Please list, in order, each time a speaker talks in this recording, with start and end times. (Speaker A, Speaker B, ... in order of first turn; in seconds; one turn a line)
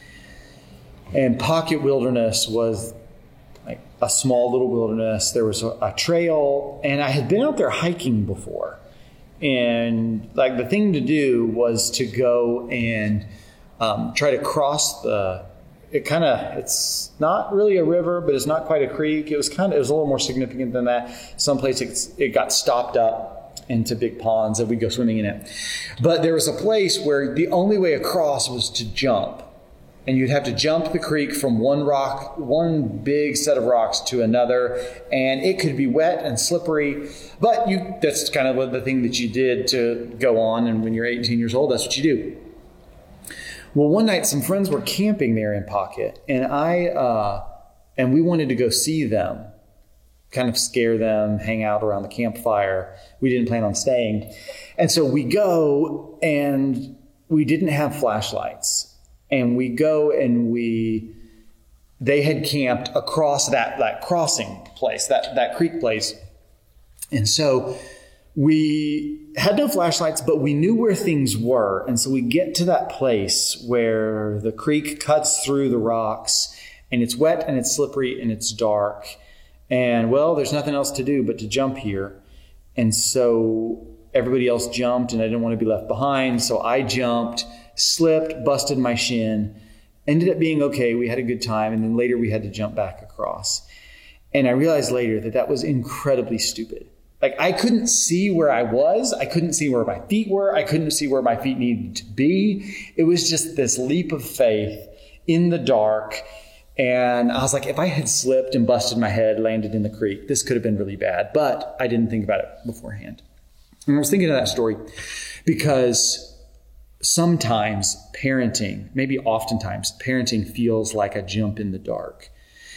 Speaker A: 1.1-2.9
Speaker A: 3.6-8.8
Speaker A: 9.4-13.2
Speaker A: 13.8-29.5
Speaker A: 30.1-42.5
Speaker A: 43.7-47.4
Speaker A: 48.0-49.5
Speaker A: 50.3-61.1
Speaker A: 62.0-66.2
Speaker A: 67.1-67.8
Speaker A: 68.3-79.2
Speaker A: 79.7-82.2
Speaker A: 82.8-89.5
Speaker A: 90.0-93.7
Speaker A: 94.3-106.2
Speaker A: 106.8-113.2
Speaker A: 113.9-114.8
Speaker A: 115.5-116.4
Speaker A: 117.0-122.3